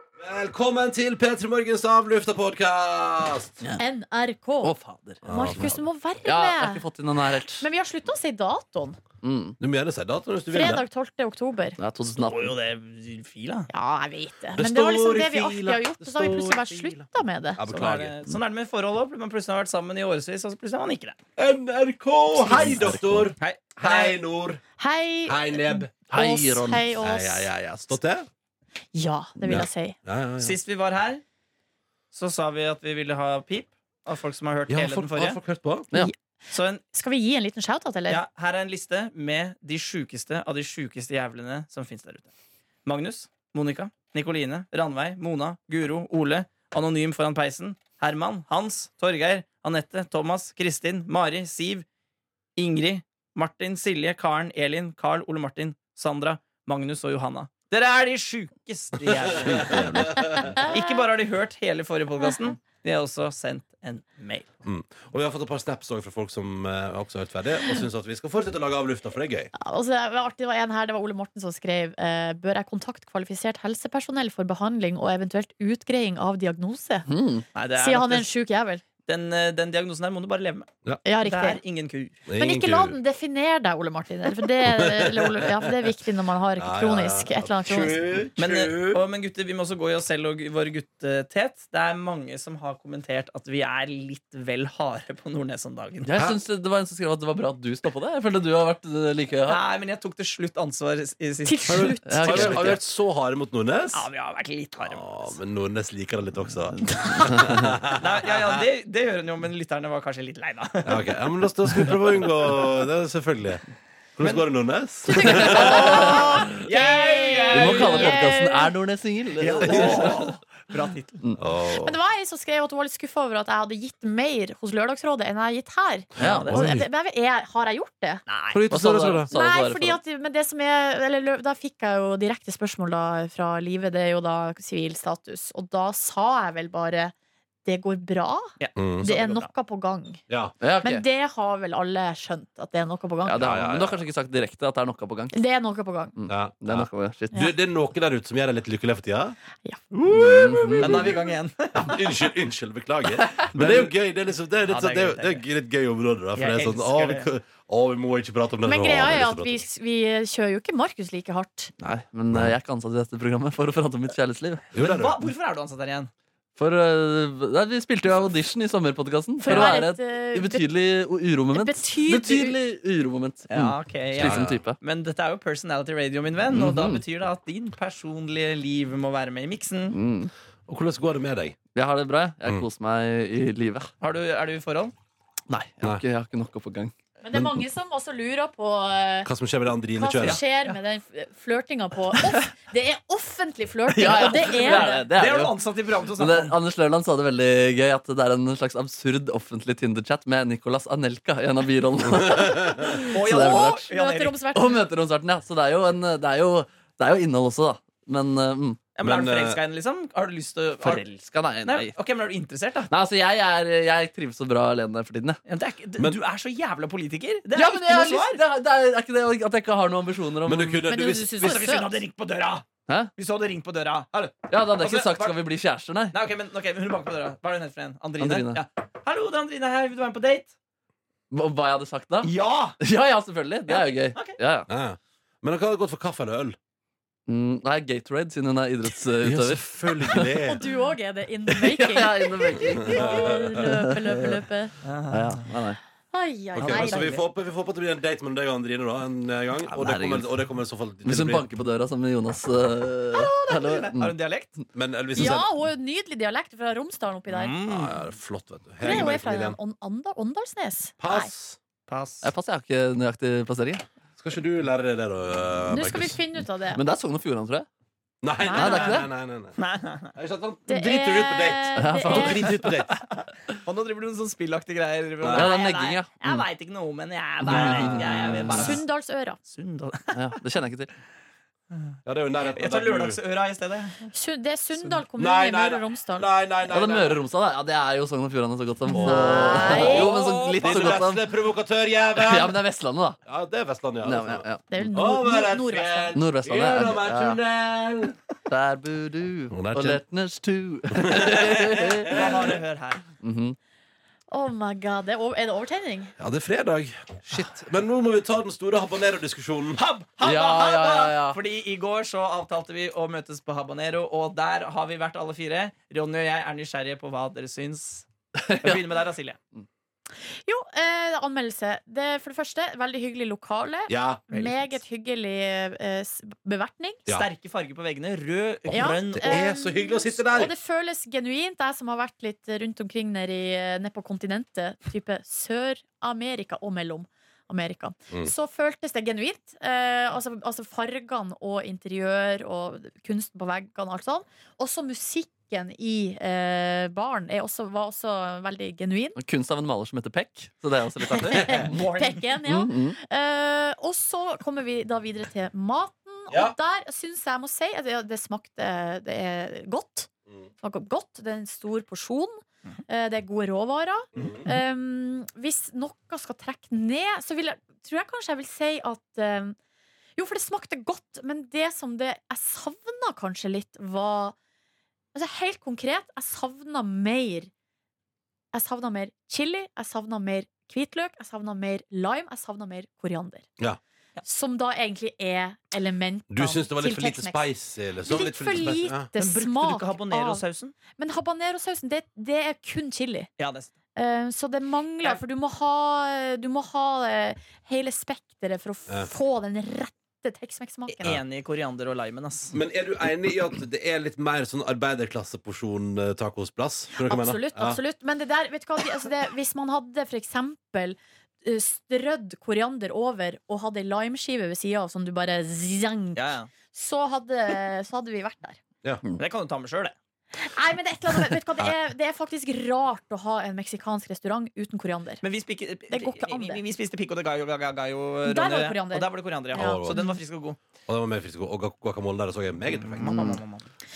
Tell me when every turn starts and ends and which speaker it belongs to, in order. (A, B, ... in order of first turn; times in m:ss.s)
0:00.2-0:03.6 A
0:03.8-0:04.8 B
0:04.6-0:07.7 C
0:05.2-0:05.8 A
0:05.3-0:06.8 B
0:07.6-0:09.0 B
0:09.2-0:09.6 C
0:09.6-0:10.8 A
0:10.5-0:11.8 B
0:11.8-0:12.6 C
0:12.3-0:13.7 D
0:13.7-0:17.6 B
0:14.6-0:17.0 A
0:17.6-0:18.2 A
0:17.6-0:21.2 D
0:21.4-0:24.6 A
0:22.4-0:23.3 C
0:23.4-0:24.2 D
0:24.8-0:27.5 B
0:25.3-0:25.9 A
0:26.1-0:27.0 C
0:27.0-0:28.3 A
0:28.9-0:30.0 B
0:29.5-0:30.6 A
0:30.4-0:31.2 D
0:32.1-0:35.4 D
0:34.7-0:35.9 A
0:36.5-0:36.8 D
0:36.9-0:38.2 B
0:38.1-0:42.3 D
0:42.8-0:51.9 D
0:52.6-1:04.5 D
0:59.3-1:00.6 A
1:04.6-1:09.5 A
1:09.6-1:17.1 B
1:17.1-1:17.4 C
1:17.5-1:18.3 D
1:17.8-1:18.8 B
1:19.0-1:20.7 D
1:21.0-1:21.6 B
1:21.2-1:22.2 D
1:22.3-1:23.0 A
1:22.4-1:28.1 B
1:24.6-1:25.7 A
1:26.6-1:29.0 A
1:28.4-1:36.1 D
1:36.0-1:39.6 C
1:39.5-1:41.9 D
1:41.4-1:42.8 B
1:41.7-1:44.1 A
1:42.1-1:42.8 C
1:43.9-1:45.4 D
1:44.9-1:48.6 A
1:47.9-1:51.1 D
1:50.8-1:53.6 A
1:54.2-1:56.2 A
1:54.2-1:54.5 D
1:55.1-1:58.7 B
1:55.3-1:58.2 D
1:55.3-1:56.4 C
1:57.5-2:00.2 C
1:59.4-2:01.2 D
1:59.6-2:00.2 A
2:01.4-2:02.0 A
2:01.8-2:08.2 B
2:06.2-2:06.9 A
2:06.2-2:06.6 C
2:06.2-2:06.6 D
2:08.3-2:09.2 D
2:08.5-2:09.3 A
2:08.7-2:10.0 C
2:09.3-2:17.1 B
2:17.6-2:20.2 B
2:18.6-2:19.5 D
2:18.8-2:19.1 A
2:20.3-2:20.6 A
2:20.6-2:21.0 C
2:20.8-2:23.4 B
2:23.3-2:25.4 C
2:23.4-2:24.0 A
2:25.3-2:26.2 B
2:26.2-2:27.4 C
2:26.3-2:29.4 A
2:30.1-2:31.2 A
2:30.1-2:31.2 C
2:30.1-2:32.0 D
2:31.7-2:39.6 A
2:33.3-2:33.9 C
2:34.7-2:35.4 D
2:36.4-2:37.3 D
2:38.6-2:41.7 B
2:41.8-2:44.7 C
2:44.7-2:45.3 A
2:44.8-2:46.1 D
2:46.6-2:54.8 C
2:49.4-2:50.7 B
2:51.5-2:52.6 B
2:53.5-3:00.0 D
2:54.1-2:54.6 A
2:56.5-2:57.0 C
2:59.9-3:00.3 C
3:00.7-3:01.6 A
3:01.7-3:03.9 C
3:04.0-3:04.9 D
3:05.5-3:06.9 C
3:07.2-3:09.3 B
3:09.2-3:10.4 A
3:10.0-3:15.1 B
3:10.2-3:10.8 D
3:13.9-3:23.9 C
3:14.0-3:16.6 D
3:22.3-3:23.0 A
3:23.1-3:24.3 D
3:23.4-3:24.8 B
3:24.5-3:28.8 C
3:29.0-3:31.0 D
3:29.0-3:29.6 A
3:30.8-3:32.0 C
3:31.7-3:32.9 D
3:32.9-3:35.4 C
3:35.5-3:38.4 D
3:37.5-3:40.8 C
3:40.4-3:41.7 A
3:40.9-3:41.9 B
3:41.4-3:45.4 D
3:44.5-3:46.2 C
3:46.1-3:50.5 D
3:48.2-3:48.6 C
3:51.3-3:54.7 C
3:52.2-3:52.8 D
3:53.7-3:54.4 D
3:54.7-3:56.6 A
3:57.3-4:00.4 C
3:59.2-4:00.6 A
4:00.4-4:04.7 B
4:01.5-4:04.4 C
4:02.8-4:03.6 A
4:04.8-4:05.5 D
4:05.1-4:05.8 C
4:06.1-4:07.2 B
4:06.6-4:11.5 A
4:06.6-4:07.2 D
4:09.7-4:10.3 C
4:11.0-4:14.2 C
4:13.1-4:14.5 D
4:14.7-4:15.5 A
4:15.2-4:17.6 B
4:17.3-4:18.0 D
4:17.7-4:19.6 A
4:18.8-4:21.3 B
4:21.0-4:21.6 A
4:21.9-4:22.3 D
4:22.2-4:23.8 C
4:24.2-4:26.2 A
4:25.7-4:26.8 B
4:26.8-4:27.7 C
4:28.2-4:29.6 A
4:28.4-4:29.0 B
4:28.5-4:29.1 C
4:29.6-4:30.1 D
4:30.2-4:33.0 A
4:30.7-4:32.6 B
4:31.8-4:32.7 C
4:33.6-4:38.8 D
4:35.2-4:35.5 A
4:35.3-4:36.4 C
4:37.4-4:38.7 C
4:37.5-4:38.8 A
4:38.5-4:39.4 B
4:39.5-4:40.3 D
4:40.2-4:40.9 C
4:42.0-4:43.2 A
4:42.6-4:44.1 D
4:44.1-4:46.3 B
4:45.2-4:47.2 A
4:46.6-4:51.3 C
4:48.9-4:50.1 B
4:48.9-4:52.6 A
4:49.6-4:51.0 D
4:52.2-4:53.2 C
4:53.2-4:58.2 A
4:54.0-4:54.9 C
4:54.7-4:56.2 B
4:56.1-4:57.4 C
4:58.5-5:02.5 C
4:59.5-5:00.0 A
5:01.0-5:02.4 A
5:02.1-5:03.0 D
5:03.2-5:03.6 C
5:04.3-5:06.1 B
5:06.2-5:09.8 A
5:09.7-5:19.4 D
5:10.2-5:11.4 C
5:18.4-5:18.8 C
5:20.4-5:27.1 B
5:23.9-5:24.3 A
5:24.3-5:24.6 D
5:27.1-5:29.5 D
5:28.7-5:30.5 A
5:28.7-5:49.2 B
5:49.2-5:51.8 C
5:51.1-6:00.1 B
5:51.4-5:52.2 D
5:52.5-5:53.0 C
5:56.3-5:56.6 A
6:00.6-6:09.6 B
6:04.2-6:04.5 A
6:10.2-6:14.4 B
6:15.1-6:17.5 B
6:18.5-6:23.5 B
6:24.2-6:27.4 B
6:26.3-6:29.1 A
6:28.0-6:30.4 B
6:29.2-6:30.7 D
6:31.0-6:33.3 B
6:33.4-6:33.7 D
6:34.0-6:41.1 B
6:40.9-6:42.6 D
6:42.5-6:47.8 A
6:47.0-6:58.6 B
6:56.2-6:56.5 D
6:59.2-7:00.0 D
7:00.4-7:05.2 B
7:05.2-7:10.6 D
7:05.9-7:06.6 B
7:08.2-7:10.2 B
7:09.5-7:10.1 A
7:10.9-7:13.4 A
7:12.8-7:13.7 D
7:13.0-7:13.4 C